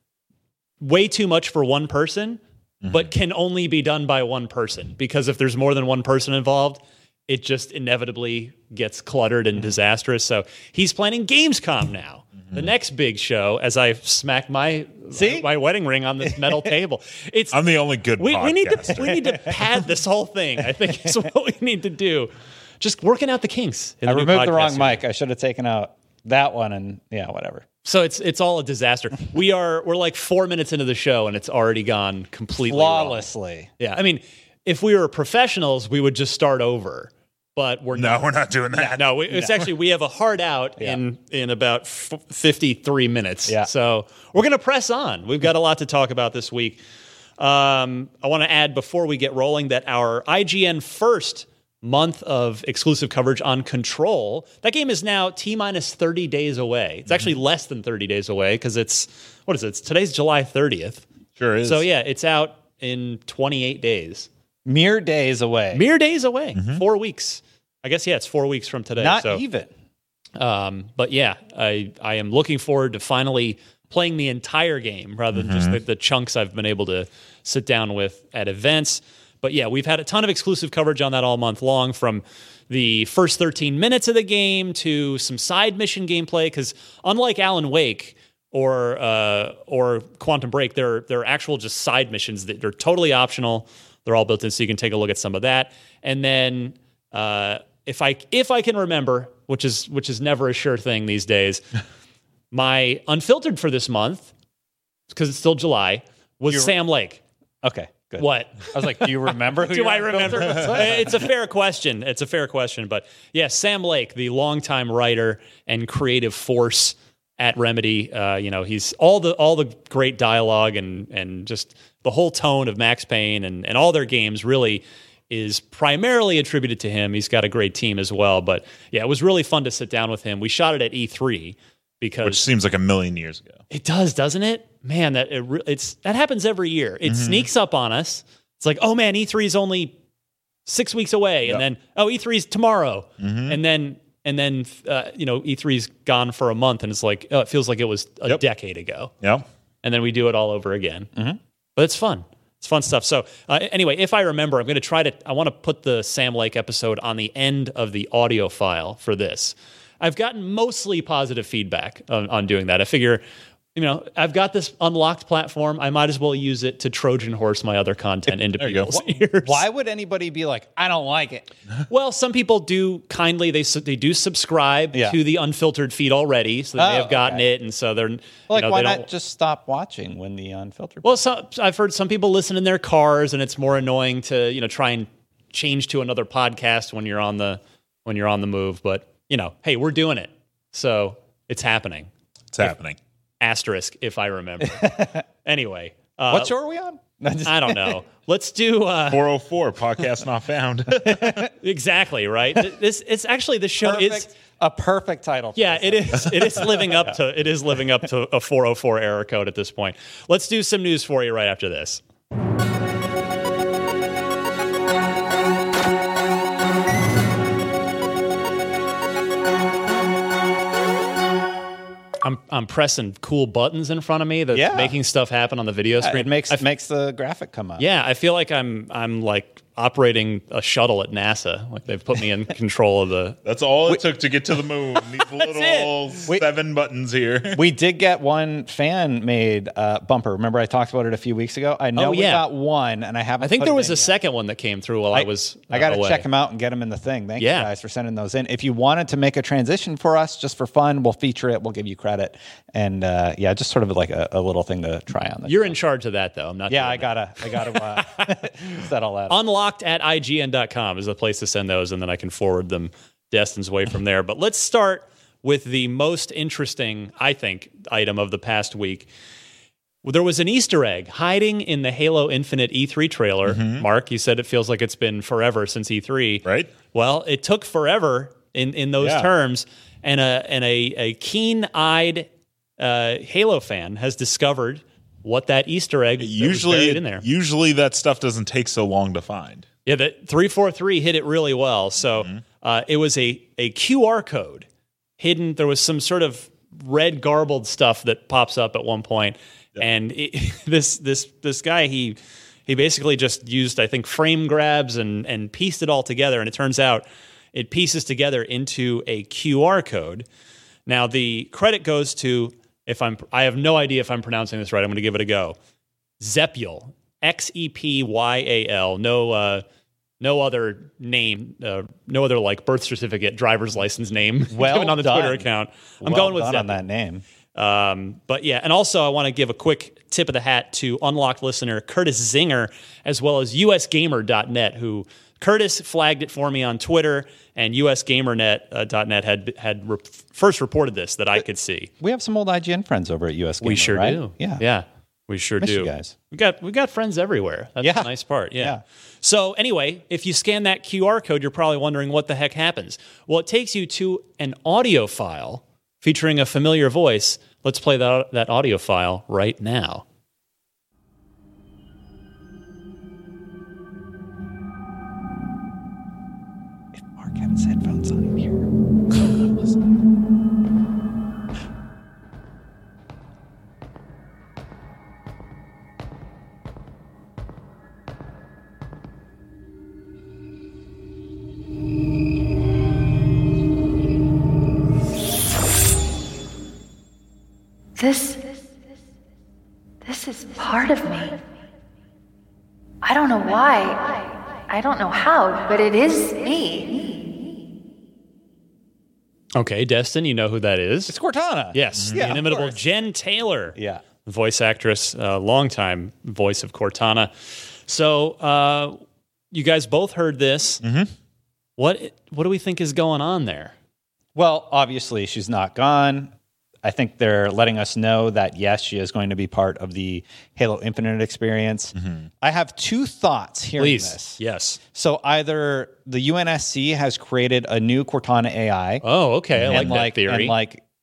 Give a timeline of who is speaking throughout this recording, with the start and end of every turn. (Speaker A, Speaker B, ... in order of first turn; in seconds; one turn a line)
Speaker A: 0.8-17.6
Speaker B: 2.8-3.1
Speaker C: 15.1-15.5
Speaker C: 16.2-16.7
Speaker B: 17.5-19.6
Speaker A: 18.2-25.0
Speaker C: 20.9-21.1
Speaker C: 24.1-27.6
Speaker A: 27.9-33.2
Speaker C: 32.7-33.7
Speaker A: 33.8-46.8
Speaker B: 37.9-39.7
Speaker A: 47.4-61.0
Speaker B: 61.4-61.9
Speaker A: 61.6-64.3
Speaker C: 64.7-65.8
Speaker A: 65.7-69.4
Speaker B: 66.6-66.8
Speaker C: 69.0-69.7
Speaker A: 70.4-101.7
Speaker B: 75.3-75.8
Speaker A: 102.5-104.3
Speaker A: 105.1-107.2
Speaker C: 106.5-106.7
Speaker C: 107.6-111.1
Speaker A: 108.2-132.4
Speaker B: 132.2-133.6
Speaker A: 133.7-139.9
Speaker B: 137.1-137.5
Speaker A: 140.7-149.1
Speaker B: 143.2-143.6
Speaker A: 149.8-151.1
Speaker A: 151.8-163.2
Speaker A: 163.8-169.6
Speaker B: 168.6-168.9
Speaker C: 169.4-171.5
Speaker A: 171.9-179.1
Speaker C: 174.9-175.2
Speaker C: 176.8-177.5
Speaker C: 178.5-181.2
Speaker A: 181.0-192.1
Speaker B: 192.5-193.0
Speaker A: 193.4-196.5
Speaker C: 194.8-195.1
Speaker C: 196.3-198.0
Speaker A: 197.4-199.2
Speaker B: 199.1-201.5
Speaker C: 201.0-201.5
Speaker A: 201.6-204.3
Speaker C: 203.8-207.1
Speaker A: 205.6-212.0
Speaker A: 222.2-226.6
Speaker C: 224.5-224.9
Speaker C: 226.0-227.8
Speaker A: 227.8-233.4
Speaker B: 233.4-237.6
Speaker A: 235.4-235.9
Speaker C: 237.5-244.1
Speaker A: 242.0-242.5
Speaker A: 243.4-246.3
Speaker C: 245.1-255.8
Speaker A: 247.4-247.7
Speaker A: 255.5-258.8
Speaker C: 256.7-259.4
Speaker A: 259.3-269.1
Speaker A: 270.0-287.2
Speaker B: 273.5-273.9
Speaker B: 276.4-276.7
Speaker B: 279.0-279.3
Speaker B: 286.2-289.6
Speaker A: 289.9-294.7
Speaker A: 295.2-310.3
Speaker A: 310.9-315.6
Speaker A: 316.2-319.6
Speaker A: 320.2-326.8
Speaker C: 324.5-325.5
Speaker C: 326.0-327.2
Speaker A: 327.6-341.9
Speaker C: 342.0-344.6
Speaker A: 343.6-360.0
Speaker C: 345.6-346.1
Speaker C: 347.8-348.8
Speaker C: 366.9-369.8
Speaker D: 388.0-388.7
Speaker D: 390.0-391.4
Speaker D: 393.0-397.1
Speaker A: 399.6-401.1
Speaker C: 401.1-402.8
Speaker A: 401.7-407.4
Speaker B: 402.0-402.3
Speaker C: 403.8-404.0
Speaker A: 407.9-409.0
Speaker A: 409.5-410.8
Speaker B: 410.8-411.1
Speaker A: 411.8-413.7
Speaker C: 414.4-416.3
Speaker C: 416.8-424.4
Speaker B: 422.0-422.3
Speaker A: 423.8-424.8
Speaker C: 424.9-429.0
Speaker A: 429.0-430.6
Speaker B: 429.6-430.0
Speaker C: 429.7-430.8